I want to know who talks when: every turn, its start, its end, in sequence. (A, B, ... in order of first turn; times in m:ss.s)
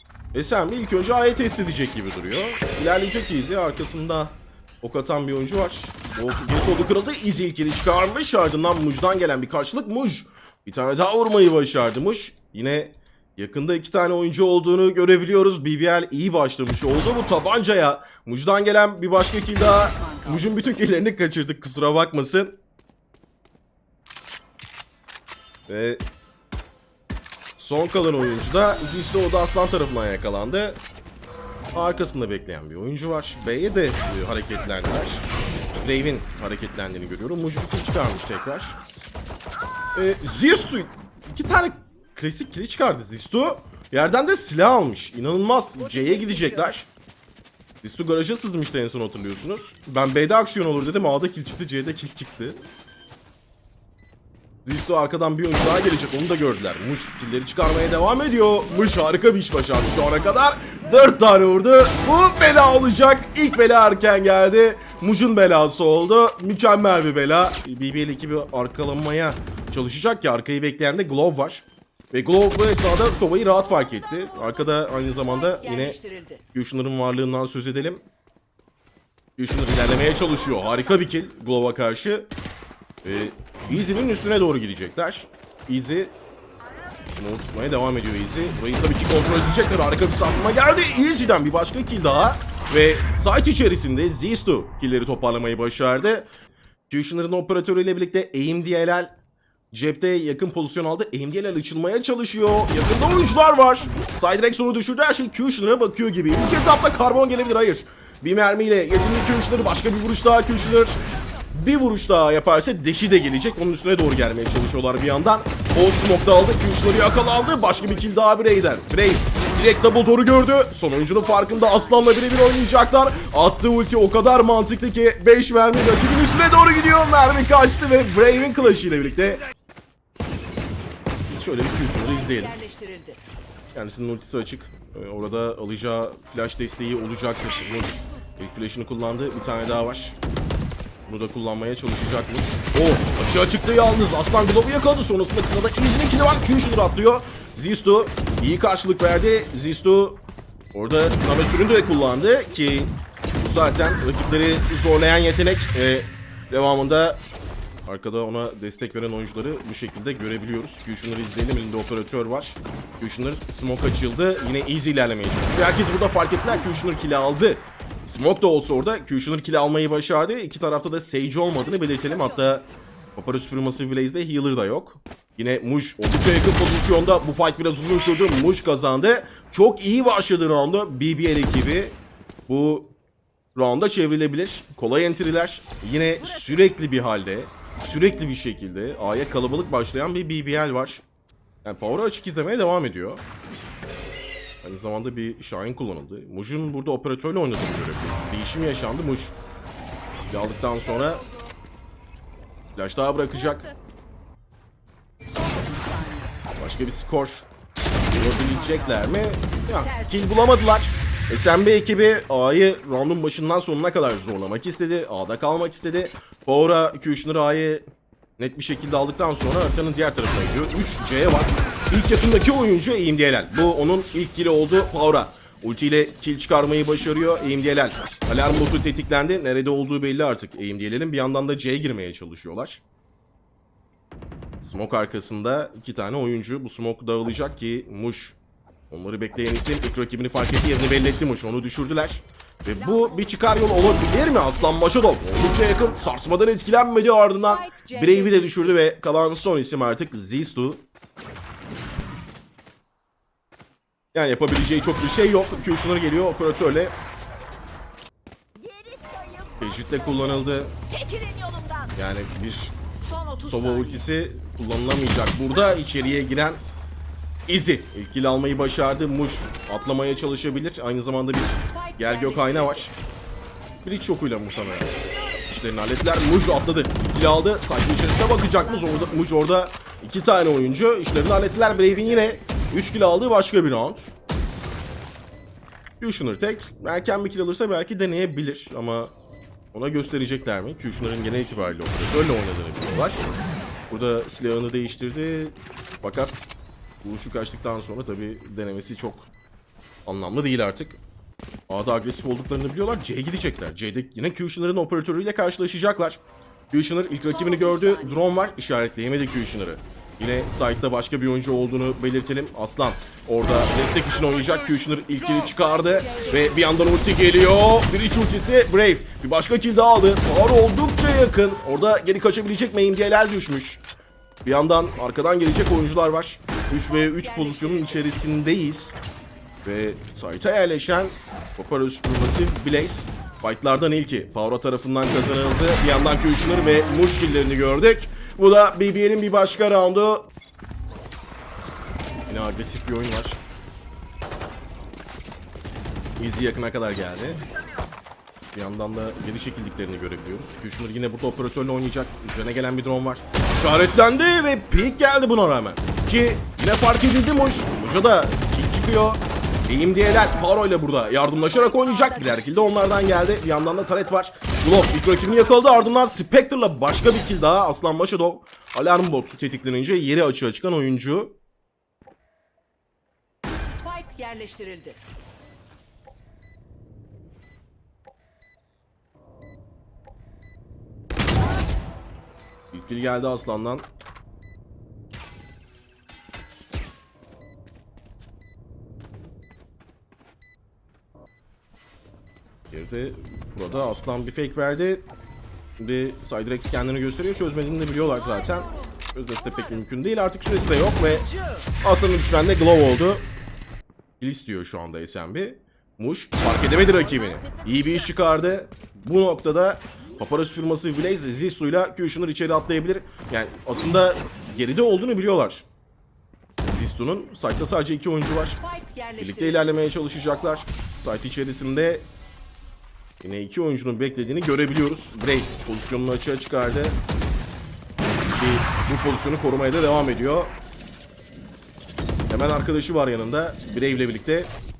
0:00.3-0:22.6 A
0:19.7-0:20.5 B
0:25.7-0:26.0 A
0:27.6-0:30.8 A
0:31.7-0:35.2 A
0:35.8-0:38.8 A
0:39.9-0:46.9 A
0:46.0-0:46.7 B
0:47.8-0:52.6 A
0:54.6-1:16.0 A
1:15.5-1:16.4 B
1:16.5-1:18.0 A
1:19.4-1:22.3 A
1:23.0-1:26.1 A
1:27.2-1:36.3 A
1:36.9-1:39.1 A
1:39.7-1:51.0 A
1:51.5-2:09.4 A
2:01.3-2:02.0 B
2:11.3-2:12.6 A
2:12.0-2:13.2 B
2:13.7-2:20.2 A
2:21.1-2:30.2 A
2:30.7-2:37.2 A
2:37.9-3:02.9 A
2:51.8-2:52.1 B
3:03.6-3:11.0 A
3:06.2-3:06.5 B
3:11.6-3:13.2 A
3:14.6-3:19.4 A
3:20.3-3:21.2 A
3:22.8-3:23.7 A
3:25.3-3:26.4 B
3:26.6-3:27.5 A
3:28.1-3:37.8 A
3:28.2-3:29.1 B
3:29.8-3:30.3 B
3:38.4-3:52.8 A
3:54.6-3:58.4 A
3:58.9-4:10.9 A
4:02.8-4:04.1 B
4:07.3-4:08.8 B
4:14.1-4:17.0 A
4:18.6-4:20.1 B
4:19.6-4:20.8 A
4:20.8-4:22.0 B
4:22.0-4:22.8 A
4:23.0-4:24.1 B
4:23.4-4:26.6 A
4:27.5-4:33.0 A
4:31.6-4:32.9 B
4:33.8-4:44.1 A
4:38.3-4:39.2 B
4:46.0-4:49.1 A
4:49.7-4:53.3 A
4:53.9-4:56.5 A
4:57.0-4:59.3 A
5:00.1-5:01.0 A
5:01.7-5:23.8 A
5:07.3-5:08.3 B
5:15.4-5:16.8 B
5:24.4-5:29.0 A
5:27.0-5:28.0 B
5:29.6-5:40.3 A
5:42.3-5:43.4 A
5:46.2-5:47.5 A
5:48.5-6:11.4 A
6:01.4-6:02.5 B
6:13.7-6:15.0 B
6:22.7-6:23.9 A
6:32.7-6:35.1 A
6:35.8-6:41.3 A
6:41.8-6:43.3 A
6:44.2-6:55.7 A
6:47.4-6:47.7 B
6:56.6-6:58.6 A
6:58.6-6:59.7 B
6:59.2-7:02.1 A
7:03.2-7:07.0 A
7:08.4-7:10.6 A
7:12.3-7:14.5 A